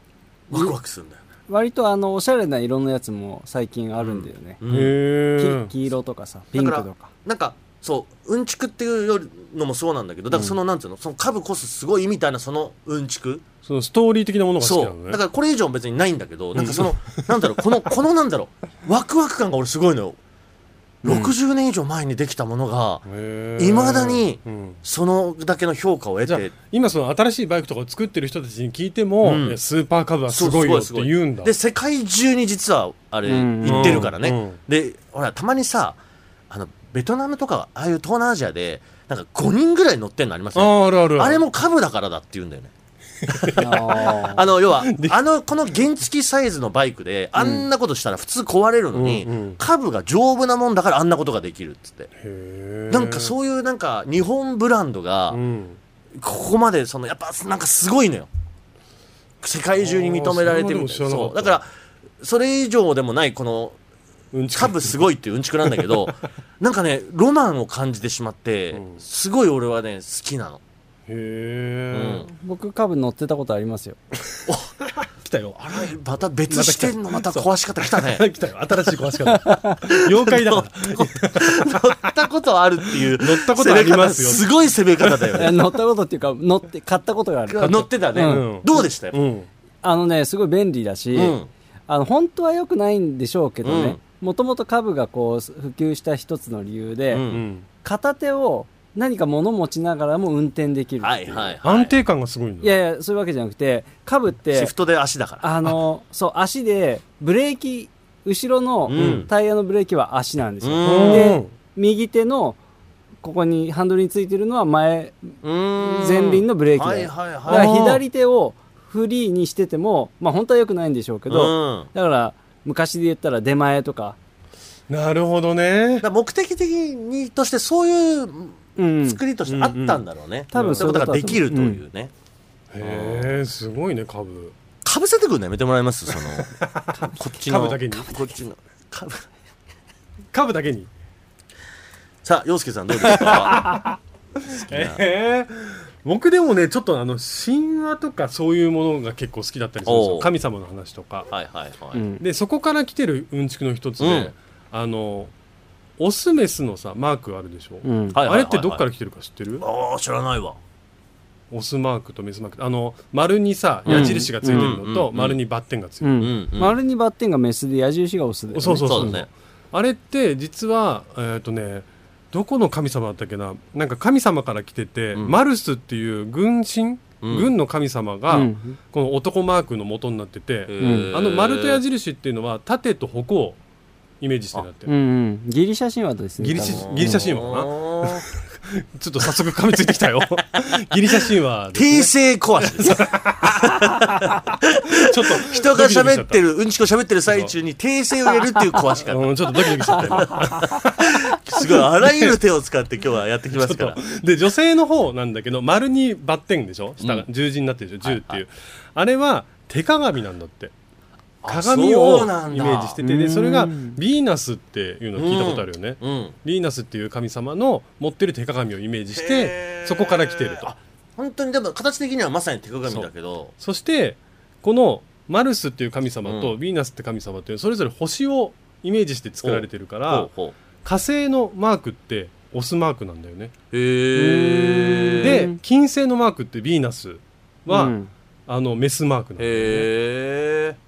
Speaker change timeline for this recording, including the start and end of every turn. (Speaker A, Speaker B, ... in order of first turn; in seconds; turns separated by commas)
Speaker A: 0.5-1.2, Speaker B: 1.5-4.6, Speaker A: 4.0-5.0, Speaker C: 4.7-5.7, Speaker B: 5.4-7.1, Speaker A: 6.5-13.4, Speaker C: 13.7-15.2, Speaker A: 14.6-20.2, Speaker C: 16.6-17.3, Speaker A: 21.0-23.0, Speaker B: 21.1-21.3, Speaker C: 23.1-24.8, Speaker A: 23.6-26.5, Speaker C: 26.3-31.5, Speaker A: 29.2-29.6, Speaker A: 30.3-36.0, Speaker B: 33.3-34.1, Speaker C: 33.6-34.6, Speaker A: 36.5-42.7, Speaker C: 40.5-41.4, Speaker C: 43.3-44.0, Speaker A: 43.3-52.1, Speaker B: 43.6-44.5, Speaker C: 44.7-45.2, Speaker B: 47.4-47.6, Speaker C: 48.9-49.6, Speaker C: 52.2-53.3, Speaker A: 52.9-55.4, Speaker C: 55.3-55.8, Speaker A: 56.2-58.3, Speaker A: 59.4-61.7, Speaker C: 59.8-61.6, Speaker A: 62.2-63.8, Speaker C: 64.3-65.0, Speaker A: 64.5-70.6, Speaker C: 65.7-66.1, Speaker C: 68.7-69.0, Speaker C: 71.1-72.2, Speaker A: 71.9-72.3, Speaker B: 72.3-74.0, Speaker A: 74.5-74.7, Speaker C: 75.0-76.0, Speaker A: 75.7-78.2, Speaker C: 76.5-82.1, Speaker B: 79.3-79.8, Speaker A: 79.9-85.6, Speaker C: 82.8-85.5, Speaker B: 85.3-88.5, Speaker A: 87.5-89.2, Speaker C: 87.6-89.5, Speaker B: 89.8-97.2, Speaker A: 91.1-91.5, Speaker A: 93.6-94.0, Speaker A: 97.1-97.5, Speaker C: 97.3-97.7, Speaker B: 97.8-101.6, Speaker A: 101.0-102.0, Speaker C: 101.6-102.8, Speaker B: 102.6-104.7, Speaker A: 104.5-105.5, Speaker B: 105.4-112.6, Speaker A: 108.9-109.3, Speaker C: 109.0-109.3, Speaker A: 110.6-111.4, Speaker C: 110.8-111.5, Speaker B: 113.2-124.2, Speaker A: 115.4-117.8, Speaker C: 117.5-118.0, Speaker A: 121.3-121.9, Speaker C: 124.9-126.1, Speaker A: 126.0-132.1, Speaker B: 128.8-129.2, Speaker C: 129.5-130.0, Speaker B: 130.5-131.8, Speaker C: 130.5-130.9, Speaker C: 132.7-134.5, Speaker A: 132.8-133.4, Speaker A: 134.8-139.2, Speaker C: 136.5-138.1, Speaker C: 140.3-140.9, Speaker A: 142.2-143.8, Speaker C: 143.0-151.3, Speaker A: 144.4-145.0, Speaker A: 149.8-150.3, Speaker A: 151.3-152.0, Speaker B: 151.9-152.2, Speaker C: 152.2-155.3, Speaker A: 154.0-154.3, Speaker C: 156.0-159.7, Speaker B: 157.8-158.2, Speaker A: 158.1-158.8, Speaker A: 159.6-160.6, Speaker C: 161.5-166.2, Speaker A: 163.9-165.4, Speaker B: 163.9-164.8, Speaker B: 166.0-169.2, Speaker A: 166.2-166.8, Speaker C: 168.5-183.6, Speaker A: 168.7-169.3, Speaker A: 177.2-177.5, Speaker B: 178.3-178.8, Speaker A: 180.7-181.8, Speaker B: 180.8-181.1, Speaker C: 184.2-184.9, Speaker B: 184.9-187.3, Speaker C: 186.4-193.6, Speaker A: 186.6-188.2, Speaker A: 191.7-204.0, Speaker C: 194.9-196.4, Speaker C: 197.3-197.5, Speaker C: 199.0-202.4, Speaker C: 203.5-210.7, Speaker A: 207.0-207.3, Speaker A: 208.0-208.4, Speaker A: 211.4-213.0, Speaker C: 211.5-220.7, Speaker B: 213.0-214.0, Speaker A: 215.2-216.3, Speaker A: 219.1-223.5, Speaker C: 222.9-230.3, Speaker A: 226.2-226.5, Speaker A: 229.4-230.6, Speaker C: 230.8-233.5, Speaker A: 233.7-235.5, Speaker B: 234.2-235.6, Speaker C: 235.2-237.9, Speaker B: 237.7-238.1, Speaker C: 238.5-239.9, Speaker A: 239.4-240.8